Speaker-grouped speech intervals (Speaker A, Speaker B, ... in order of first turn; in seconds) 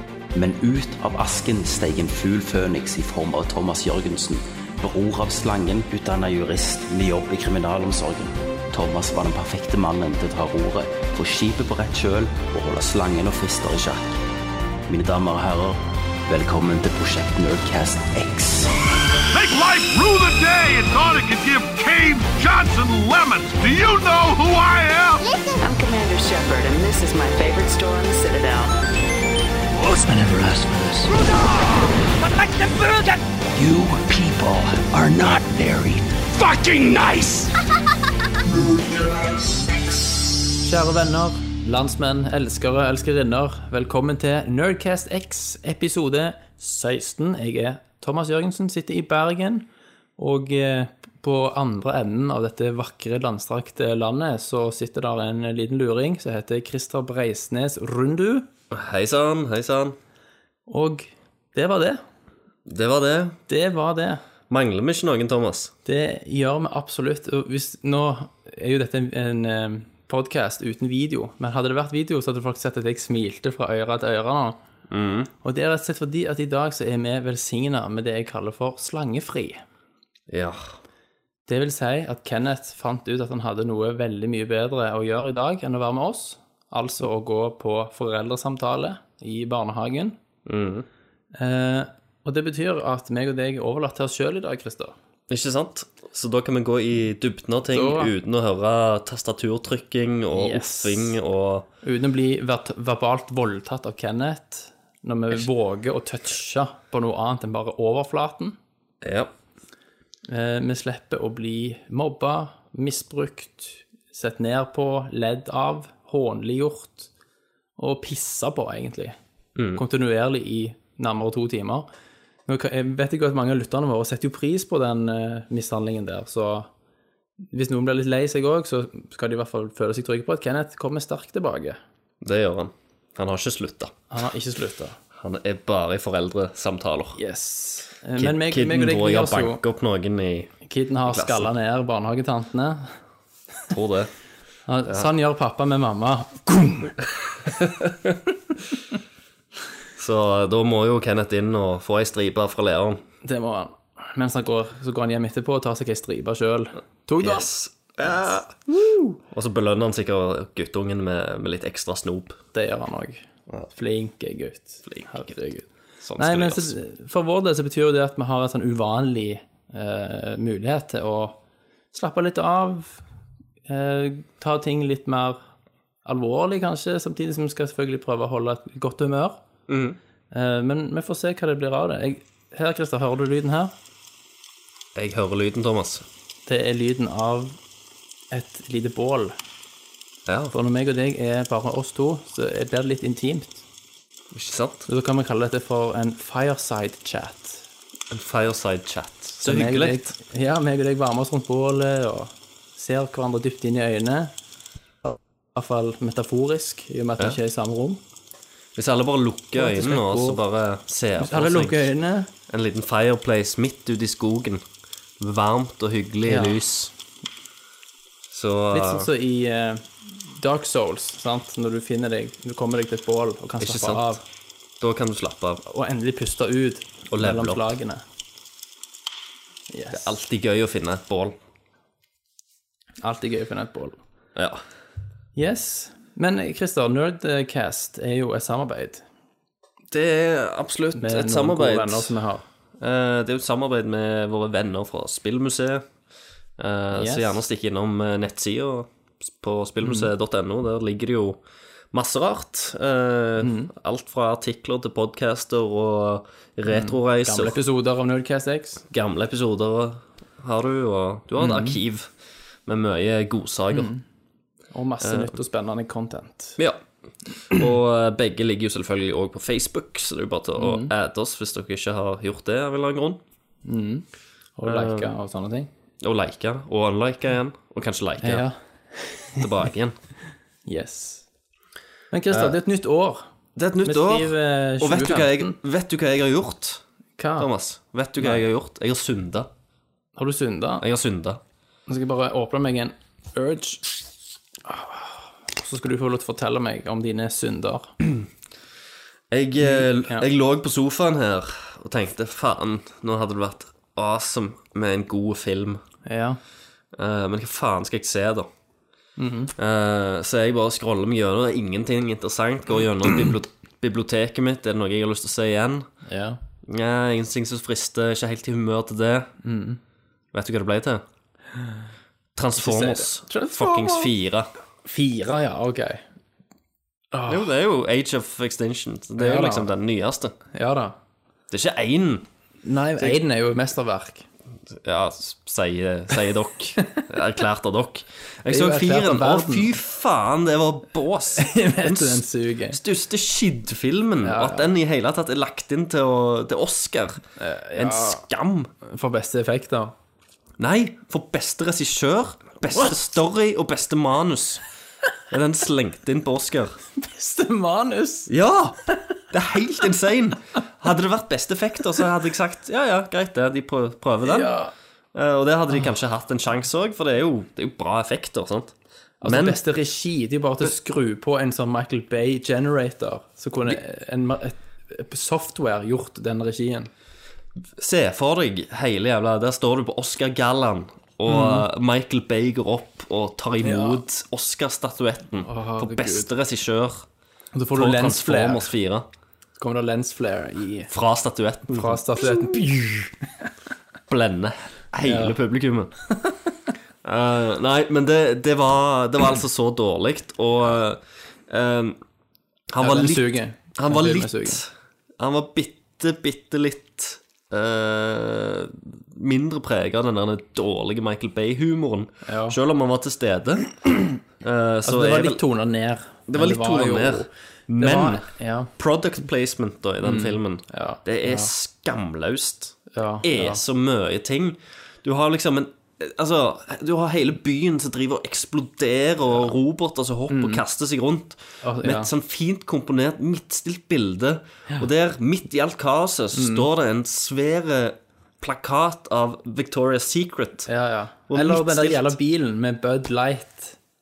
Speaker A: 0.3-14.2, 14.9-18.7
Speaker B: 19.3-25.2
Speaker C: 25.3-28.7
Speaker D: 29.7-37.5, 38.5-39.1
Speaker E: 40.6-49.7, 50.2-58.5, 60.7-62.0, 63.5-64.2, 65.8-74.6, 75.4-79.6, 81.5-90.2, 91.3-95.0, 97.7-98.1, 100.3-101.2, 101.8-108.6, 110.3-117.1, 117.8-119.2, 119.7-121.9, 122.5-126.7, 127.5-131.8, 134.1-135.0, 137.2-139.6, 140.7-142.9, 144.7-147.0, 153.2-157.5, 158.0-159.1, 162.5-171.4, 171.9-173.0, 173.7-175.4, 176.1-179.4, 180.3-183.8, 186.5-187.6, 188.3-189.3, 190.5-193.7, 194.9-197.6, 199.4-204.3, 205.0-208.0, 209.6-210.4, 211.2-212.3, 216.3-216.6, 218.7-224.2, 225.6-228.0, 229.7-230.2, 233.0-234.0, 235.3-239.1, 240.9-242.5, 246.9-247.4, 249.8-250.1, 253.4-253.7, 256.7-258.8, 261.4-261.8, 263.7-264.0, 264.7-266.6, 270.6-270.9, 273.6-274.1, 274.6-275.7, 278.2-279.5, 280.7-281.3, 282.1-283.3, 283.8-285.6, 287.2-287.5, 288.2-288.4, 290.2-290.8, 291.9-294.1, 294.6-297.9, 299.6-300.3, 306.1-306.4, 309.2-309.5, 316.1-316.4, 319.4-319.8, 322.6-324.1, 324.9-326.0, 327.1-327.5, 329.2-329.7, 330.5-331.0, 332.6-334.3, 338.5-339.8, 341.4-342.8, 344.2-344.8, 347.4-348.2, 348.8-349.9, 357.0-358.3, 364.2-364.7, 369.2-376.9, 381.3-381.7, 383.6-384.0, 385.4-386.3, 387.5-388.7, 389.6-390.9, 391.7-393.5, 395.0-395.4, 402.8-404.6, 412.2-412.6, 414.9-418.7, 420.0-421.5, 422.9-423.6, 430.3-430.6, 431.6-432.1, 436.3-436.7, 440.7-443.8
Speaker F: 58.7-60.0, 62.7-63.4, 64.5-65.7, 74.9-75.3, 80.3-80.8, 90.5-90.9, 95.3-101.7, 109.0-109.3, 119.6-119.8, 132.2-133.9, 135.2-137.2, 138.2-140.5, 141.1-141.5, 143.7-144.1, 147.7-148.1, 150.0-153.0, 157.2-162.4, 164.9-165.3, 166.0-166.8, 179.7-180.0, 184.9-186.1, 190.3-190.5, 194.3-194.9, 198.1-200.1, 208.8-211.9, 212.5-214.6, 215.2-216.9, 218.3-219.1, 223.6-224.2, 224.8-225.6, 227.1-227.7, 229.9-231.4, 234.4-234.6, 239.9-242.2, 242.8-245.9, 246.6-251.4, 251.9-257.6, 258.9-262.1, 262.7-263.9, 265.0-265.4, 266.6-266.8, 267.4-273.2, 274.7-275.1, 276.0-278.5, 279.4-280.0, 282.3-282.6, 283.6-286.8, 287.4-289.5, 290.8-291.4, 299.3-305.8, 306.9-308.5, 309.6-315.9, 316.7-319.3, 320.3-321.0, 322.4-324.5, 327.3-330.4, 331.5-332.3, 334.7-347.2, 347.8-348.7, 350.6-354.6, 355.3-356.8, 358.3-364.5, 365.1-369.6, 377.8-387.1, 387.7-389.1, 390.9-392.6, 394.1-395.9, 397.0-402.0, 402.7-415.4, 416.3-440.7, 441.3-442.1